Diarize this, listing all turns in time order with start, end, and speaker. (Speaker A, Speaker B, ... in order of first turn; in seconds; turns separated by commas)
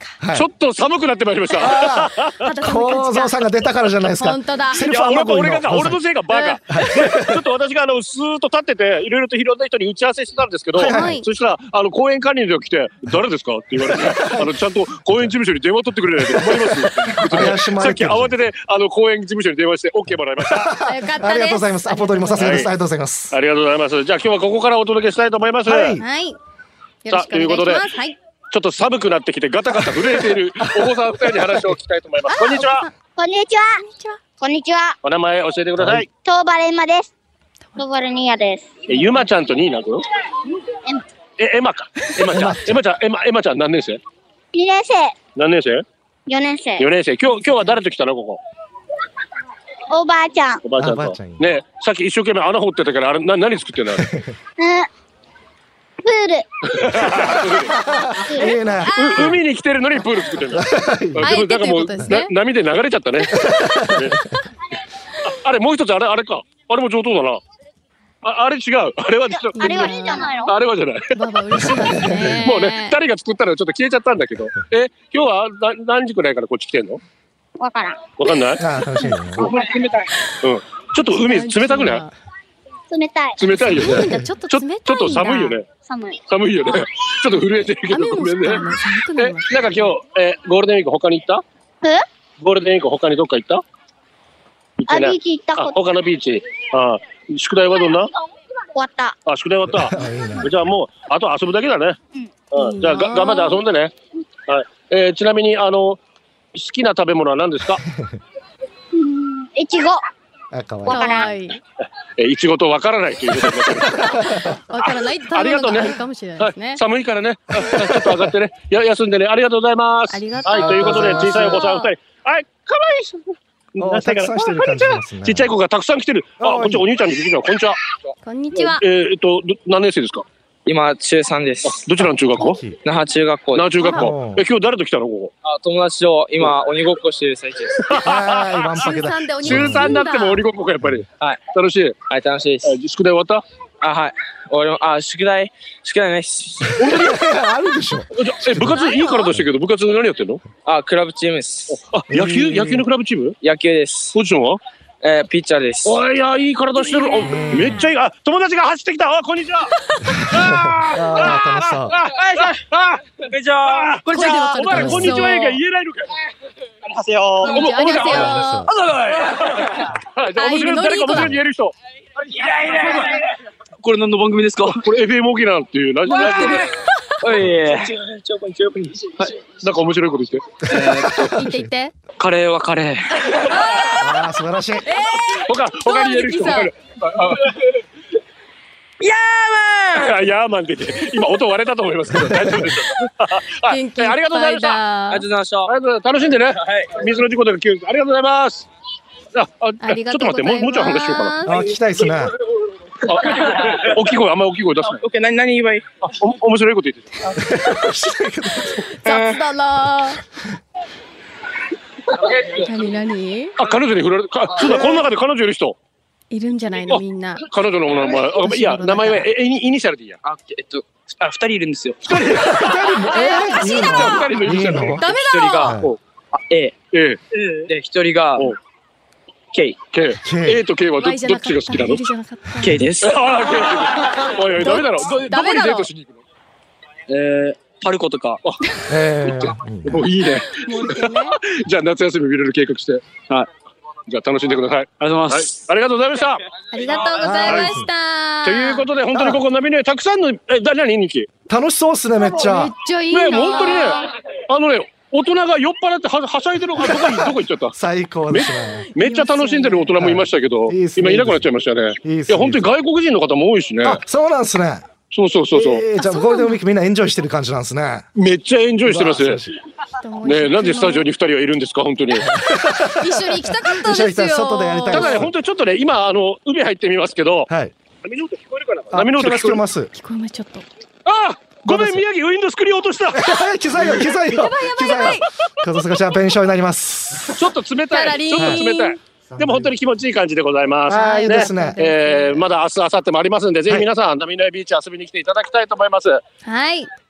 Speaker A: 0.2-0.5, Speaker B: 0.3-2.3, Speaker C: 1.5-3.4, Speaker A: 1.6-6.0, Speaker C: 4.2-4.8, Speaker B: 4.7-20.7, Speaker C: 6.3-6.6, Speaker A: 6.7-7.4, Speaker A: 10.8-11.2, Speaker C: 10.8-11.2, Speaker A: 13.8-14.5, Speaker A: 16.2-18.4, Speaker A: 20.4-23.3, Speaker C: 20.8-22.7, Speaker B: 22.4-22.6, Speaker B: 23.3-26.0, Speaker A: 25.6-26.1, Speaker C: 26.0-26.4, Speaker C: 27.0-28.2, Speaker B: 27.1-27.9, Speaker B: 28.5-32.9, Speaker C: 32.3-32.9, Speaker D: 33.1-33.8, Speaker C: 33.9-34.2, Speaker D: 34.4-35.0, Speaker B: 35.0-36.1, Speaker A: 35.8-36.0, Speaker D: 36.2-37.1, Speaker D: 37.8-38.8, Speaker B: 38.9-40.0, Speaker B: 41.4-44.0, Speaker A: 42.2-42.8, Speaker D: 44.5-45.1, Speaker B: 45.4-45.8, Speaker D: 46.3-46.9, Speaker B: 46.8-48.4, Speaker C: 47.4-47.7, Speaker D: 49.9-50.6, Speaker B: 50.6-54.1, Speaker A: 50.8-51.5, Speaker A: 54.0-54.3, Speaker D: 54.6-54.9, Speaker D: 56.0-56.9, Speaker B: 56.8-57.8, Speaker A: 57.6-59.4, Speaker D: 58.2-58.5, Speaker C: 58.8-59.3, Speaker B: 59.0-64.2, Speaker A: 60.5-61.3, Speaker C: 61.2-62.3, Speaker A: 63.2-64.2, Speaker B: 65.2-67.4, Speaker B: 68.2-71.1, Speaker C: 69.5-70.3, Speaker D: 69.6-70.5, Speaker C: 71.1-72.9, Speaker A: 71.6-72.4, Speaker B: 72.4-77.0, Speaker D: 77.6-78.1, Speaker B: 78.2-78.6, Speaker A: 78.6-79.5, Speaker B: 79.4-79.7, Speaker B: 80.4-82.0, Speaker C: 81.0-82.1, Speaker D: 82.9-83.7, Speaker B: 83.4-85.7, Speaker C: 83.6-85.5, Speaker A: 83.8-84.2, Speaker D: 85.8-86.2, Speaker B: 86.3-91.4, Speaker C: 87.9-89.9, Speaker B: 92.4-93.6, Speaker B: 94.8-98.1, Speaker D: 94.9-95.8, Speaker D: 98.7-99.2, Speaker B: 99.2-102.0, Speaker A: 99.7-100.5, Speaker B: 102.5-103.9, Speaker C: 102.5-103.6, Speaker B: 104.5-106.0, Speaker B: 106.5-107.8, Speaker A: 107.8-108.2, Speaker D: 108.9-110.0, Speaker A: 110.5-111.2, Speaker D: 110.8-111.3, Speaker C: 110.9-111.6, Speaker B: 112.2-114.2, Speaker A: 113.9-114.5, Speaker C: 114.7-116.8, Speaker B: 114.8-127.8, Speaker A: 117.5-118.2, Speaker C: 120.1-121.9, Speaker A: 120.4-121.6, Speaker A: 123.8-125.5, Speaker A: 126.4-126.9, Speaker C: 128.2-128.8, Speaker B: 128.6-130.2, Speaker E: 130.7-131.8, Speaker B: 131.7-132.6, Speaker A: 132.4-132.8, Speaker E: 132.8-133.9, Speaker B: 133.5-135.3, Speaker C: 133.8-134.1, Speaker A: 133.9-134.4, Speaker E: 135.4-137.9, Speaker B: 137.9-138.8, Speaker A: 138.0-140.0, Speaker C: 138.8-140.4, Speaker B: 139.4-142.0, Speaker E: 142.1-142.8, Speaker B: 142.6-143.4, Speaker E: 143.8-146.8, Speaker B: 146.8-147.1, Speaker A: 146.8-148.8, Speaker B: 148.2-150.4, Speaker C: 148.6-149.3, Speaker E: 150.6-151.8, Speaker B: 151.7-153.4, Speaker A: 152.1-152.8, Speaker E: 153.4-154.2, Speaker B: 154.1-154.6, Speaker E: 155.0-156.0, Speaker B: 155.8-159.7, Speaker C: 156.9-157.9, Speaker A: 157.2-157.8, Speaker A: 160.2-162.0, Speaker B: 160.3-163.0, Speaker E: 162.2-162.5, Speaker E: 163.2-164.9, Speaker B: 163.7-166.2, Speaker C: 164.1-165.6, Speaker A: 164.7-165.2, Speaker E: 166.9-169.8, Speaker C: 167.4-168.6, Speaker B: 167.4-168.3, Speaker A: 168.1-168.7, Speaker B: 169.1-171.7, Speaker C: 170.4-171.3, Speaker A: 171.1-171.4, Speaker E: 172.2-173.2, Speaker E: 173.8-174.8, Speaker B: 174.8-176.7, Speaker C: 176.1-177.1, Speaker E: 176.1-176.6, Speaker E: 177.2-179.3, Speaker B: 179.6-180.4, Speaker E: 180.7-181.3, Speaker A: 180.8-181.6, Speaker C: 181.2-181.9, Speaker E: 182.2-183.9, Speaker A: 183.9-184.9, Speaker C: 184.9-186.7, Speaker B: 185.5-187.5, Speaker E: 189.0-190.0, Speaker B: 189.9-194.8, Speaker A: 192.1-192.7, Speaker C: 193.7-195.2, Speaker E: 195.1-195.7, Speaker B: 195.7-198.7, Speaker E: 196.5-197.0, Speaker B: 199.3-201.3, Speaker C: 199.8-201.7, Speaker A: 201.4-202.3, Speaker B: 203.1-205.0, Speaker E: 203.3-203.9, Speaker E: 204.9-205.8, Speaker B: 206.0-207.1, Speaker A: 207.3-208.8, Speaker C: 208.9-210.2, Speaker E: 209.1-209.4, Speaker C: 212.6-213.5, Speaker B: 213.6-215.8, Speaker A: 214.6-215.1, Speaker C: 216.3-217.4, Speaker B: 216.9-220.2, Speaker C: 218.3-219.3, Speaker E: 220.2-222.3, Speaker B: 222.1-225.0, Speaker A: 222.3-225.0, Speaker C: 223.1-225.8, Speaker E: 224.9-226.7, Speaker A: 225.6-225.9, Speaker B: 226.9-227.2, Speaker E: 227.3-228.5, Speaker E: 229.5-229.8, Speaker B: 229.9-232.0, Speaker A: 230.2-230.6, Speaker C: 231.0-232.8, Speaker E: 232.6-233.4, Speaker B: 233.0-236.2, Speaker C: 234.6-235.9, Speaker E: 237.1-238.4, Speaker A: 238.9-240.1, Speaker B: 239.2-243.1, Speaker C: 240.5-241.3, Speaker B: 244.1-246.4, Speaker E: 245.0-245.6, Speaker C: 246.7-248.8, Speaker A: 247.2-247.9, Speaker B: 247.5-247.8, Speaker B: 248.4-251.3, Speaker A: 251.5-252.7, Speaker C: 252.2-254.1, Speaker B: 253.1-257.7, Speaker A: 256.8-258.9, Speaker B: 258.3-264.0, Speaker C: 258.9-260.0, Speaker A: 260.0-261.5, Speaker A: 262.0-262.7, Speaker A: 263.8-264.9, Speaker B: 265.1-265.9, Speaker A: 265.5-268.1, Speaker C: 266.0-266.6, Speaker B: 268.1-269.4, Speaker A: 268.8-269.6, Speaker C: 270.0-271.1, Speaker B: 270.2-272.3, Speaker A: 272.2-275.3, Speaker C: 272.9-275.2, Speaker B: 274.9-277.5, Speaker A: 277.5-277.7, Speaker B: 278.0-279.6, Speaker A: 278.9-279.9, Speaker C: 279.9-280.6, Speaker B: 281.1-283.3, Speaker A: 281.7-282.0, Speaker A: 283.1-287.5, Speaker C: 283.9-285.3, Speaker B: 287.3-296.2, Speaker C: 287.9-289.0, Speaker A: 288.4-288.6, Speaker A: 289.3-289.7, Speaker A: 290.9-291.9, Speaker C: 290.9-292.4, Speaker C: 296.4-296.9